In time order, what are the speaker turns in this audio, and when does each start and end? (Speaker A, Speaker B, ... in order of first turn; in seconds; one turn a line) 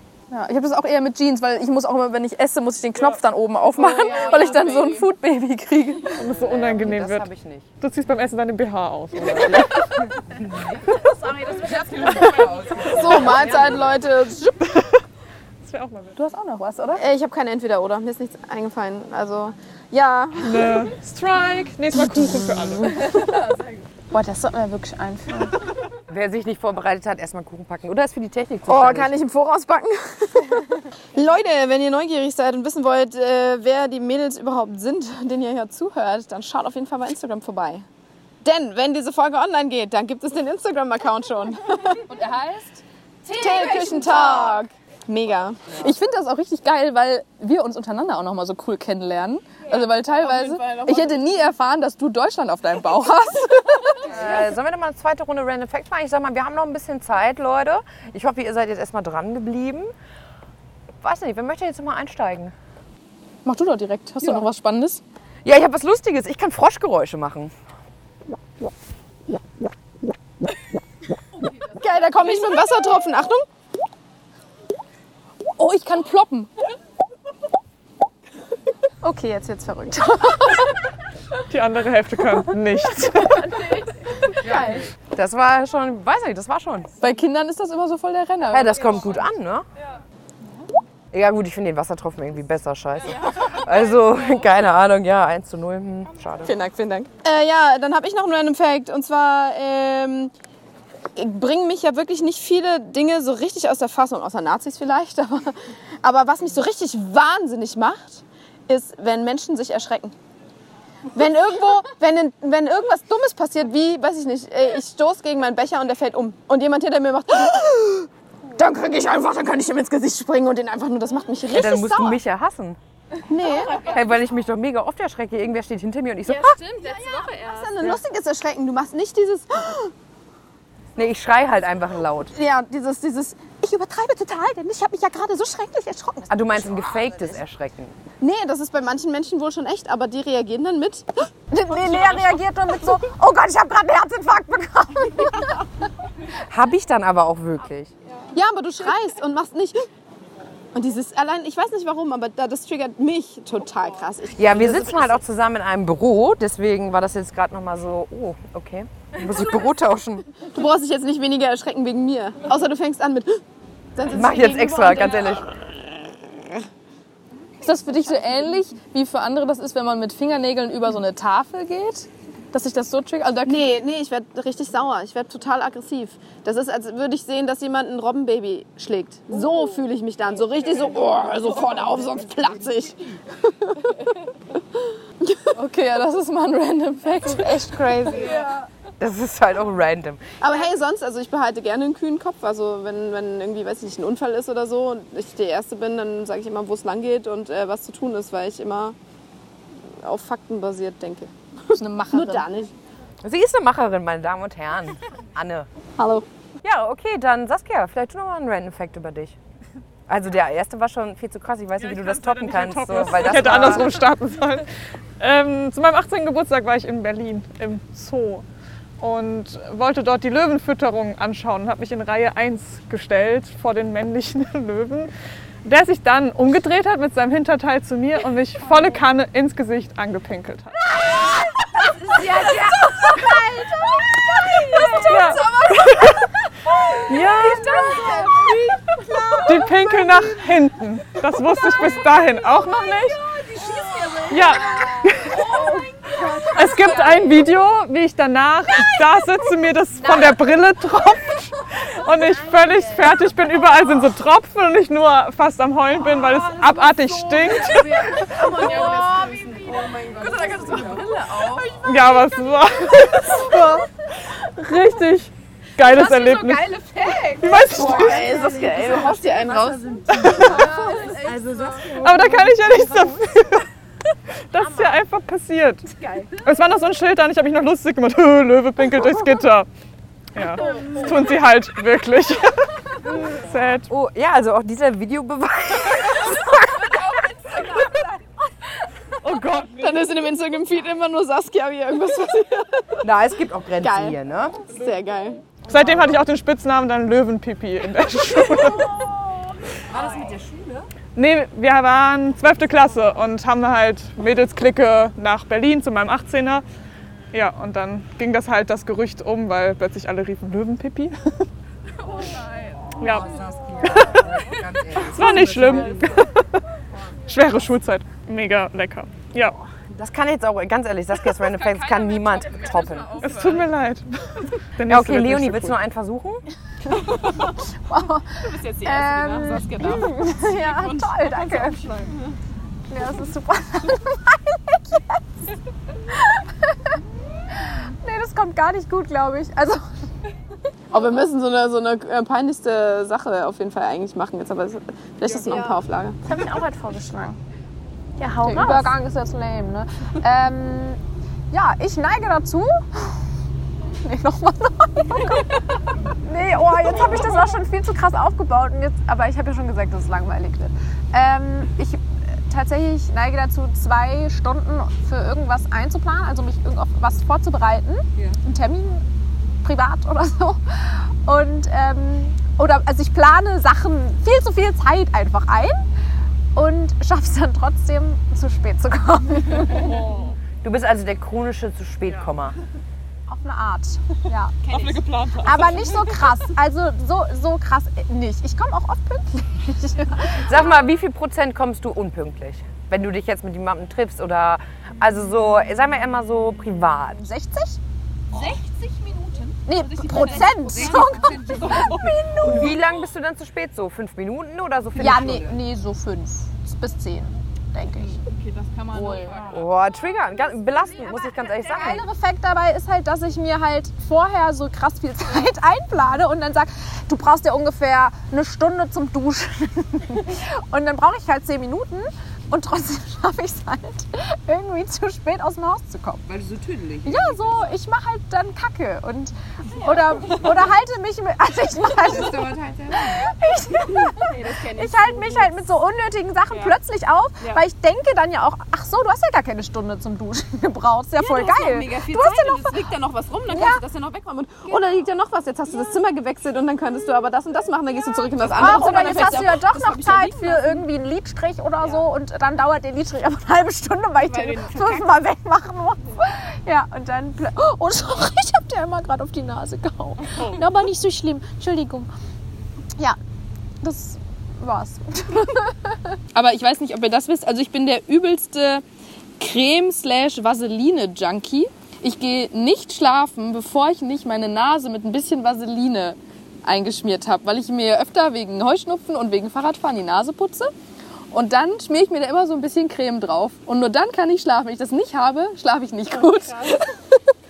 Speaker A: 0.3-6.2
Speaker B: 3.8-5.0
Speaker C: 6.2-7.3
Speaker D: 6.2-7.7
Speaker C: 7.8-10.1
Speaker D: 10.3-11.1
Speaker E: 11.4-12.5
Speaker D: 11.9-13.4
Speaker B: 12.7-14.8
Speaker C: 15.6-16.2
Speaker A: 16.2-17.0
Speaker B: 17.0-20.9
Speaker C: 20.4-23.1
Speaker F: 24.1-25.7
Speaker D: 26.1-29.1
Speaker B: 28.7-37.9
Speaker B: 38.4-42.0
Speaker A: 42.1-42.8
Speaker B: 43.3-45.6
Speaker E: 43.3-44.6
Speaker A: 45.8-54.2
Speaker B: 49.7-51.3
Speaker D: 54.1-59.9
Speaker B: 54.1-54.4
Speaker D: 61.0-62.5
Speaker A: 63.5-65.0
Speaker D: 65.5-67.5
Speaker B: 71.7-73.5
Speaker A: 75.6-76.5
Speaker E: 79.1-80.4
Speaker C: 81.5-83.7
Speaker F: 83.6-83.9
Speaker D: 84.4-86.9
Speaker F: 84.5-84.7
Speaker A: 87.0-88.8
Speaker D: 88.5-89.7
Speaker D: 91.1-96.6
Speaker B: 96.4-100.3
Speaker B: 101.2-110.1
Speaker B: 111.1-122.2
Speaker D: 121.5-122.8
Speaker B: 123.3-124.0
Speaker D: 123.7-126.6
Speaker B: 126.3-129.9
Speaker D: 131.0-132.3
Speaker B: 132.3-136.3
Speaker D: 136.3-138.0
Speaker B: 138.2-141.3
Speaker E: 141.5-145.6
Speaker D: 146.5-147.9
Speaker B: 148.3-149.8
Speaker B: 150.7-155.2
Speaker D: 154.3-160.3
Speaker B: 160.5-163.4
Speaker B: 164.0-165.5
Speaker D: 164.1-165.6
Speaker A: 167.6-173.7
Speaker B: 173.4-183.9
Speaker A: 185.5-187.6
Speaker F: 187.2-188.5
Speaker D: 189.0-190.2
Speaker B: 190.4-199.0
Speaker B: 200.0-202.7
Speaker A: 201.7-202.5
Speaker D: 203.2-205.7
Speaker B: 206.0-206.3
Speaker D: 206.6-209.4
Speaker D: 210.1-214.0
Speaker C: 211.8-218.4
Speaker C: 219.0-225.1
Speaker C: 225.7-231.3
Speaker B: 231.9-233.5
Speaker B: 234.4-235.7
Speaker E: 235.0-235.4
Speaker C: 235.0-236.2
Speaker B: 237.0-240.2
Speaker E: 237.1-238.2
Speaker C: 239.5-243.2
Speaker B: 243.5-247.2
Speaker C: 244.3-245.5
Speaker E: 244.5-245.7
Speaker C: 246.6-258.4
Speaker E: 246.8-247.2
Speaker B: 256.2-261.7
Speaker E: 258.7-259.1
Speaker C: 261.8-268.3
Speaker E: 266.0-267.4
Speaker B: 267.7-271.4
Speaker D: 268.6-270.4
Speaker C: 270.1-270.7
Speaker E: 270.7-271.0
Speaker D: 271.2-272.4
Speaker C: 271.9-273.7
Speaker C: 274.5-275.9
Speaker F: 274.6-275.0
Speaker B: 276.0-276.3
Speaker C: 276.4-279.7
Speaker C: 280.4-282.6
Speaker B: 280.6-281.2
Speaker C: 283.2-283.9
Speaker D: 283.9-287.8
Speaker C: 289.2-289.9
Speaker B: 289.7-293.0
Speaker D: 293.0-294.6
Speaker B: 293.8-295.5
Speaker C: 295.7-299.1
Speaker D: 299.9-300.9
Speaker C: 301.1-306.6
Speaker C: 307.3-311.5
Speaker D: 313.0-316.3
Speaker C: 313.0-313.4
Speaker C: 315.0-316.6
Speaker C: 317.3-319.6
Speaker D: 319.9-323.4
Speaker E: 322.6-323.1
Speaker C: 323.2-325.8
Speaker D: 324.8-326.4
Speaker B: 326.9-327.6
Speaker E: 327.9-328.3
Speaker B: 328.4-332.3
Speaker E: 328.8-331.8
Speaker E: 332.9-335.1
Speaker E: 338.0-339.8
Speaker B: 340.9-346.2
Speaker F: 346.2-347.4
Speaker F: 348.2-348.9
Speaker E: 348.6-351.0
Speaker E: 351.5-352.7
Speaker E: 354.1-355.6
Speaker E: 356.2-369.0
Speaker E: 369.6-375.8
Speaker E: 376.6-379.9
Speaker C: 379.8-380.2
Speaker D: 380.6-382.6
Speaker E: 383.3-390.6
Speaker B: 384.6-386.1
Speaker D: 390.4-397.2
Speaker E: 397.2-397.8
Speaker E: 399.6-402.7
Speaker A: 400.1-401.8
Speaker B: 401.5-402.1
Speaker D: 402.4-405.6
Speaker E: 405.0-408.3
Speaker A: 408.9-409.5
Speaker E: 408.9-409.4
Speaker D: 409.3-412.1
Speaker E: 411.6-426.2
Speaker D: 426.2-427.6
Speaker E: 427.1-442.8
Speaker D: 432.1-433.3
Speaker B: 434.0-435.6
Speaker B: 441.2-450.8
Speaker E: 443.5-443.8
Speaker E: 448.5-462.1
Speaker B: 454.2-455.1
Speaker E: 463.8-465.7
Speaker A: 466.3-468.8
Speaker A: 469.4-480.7
Speaker A: 481.3-487.2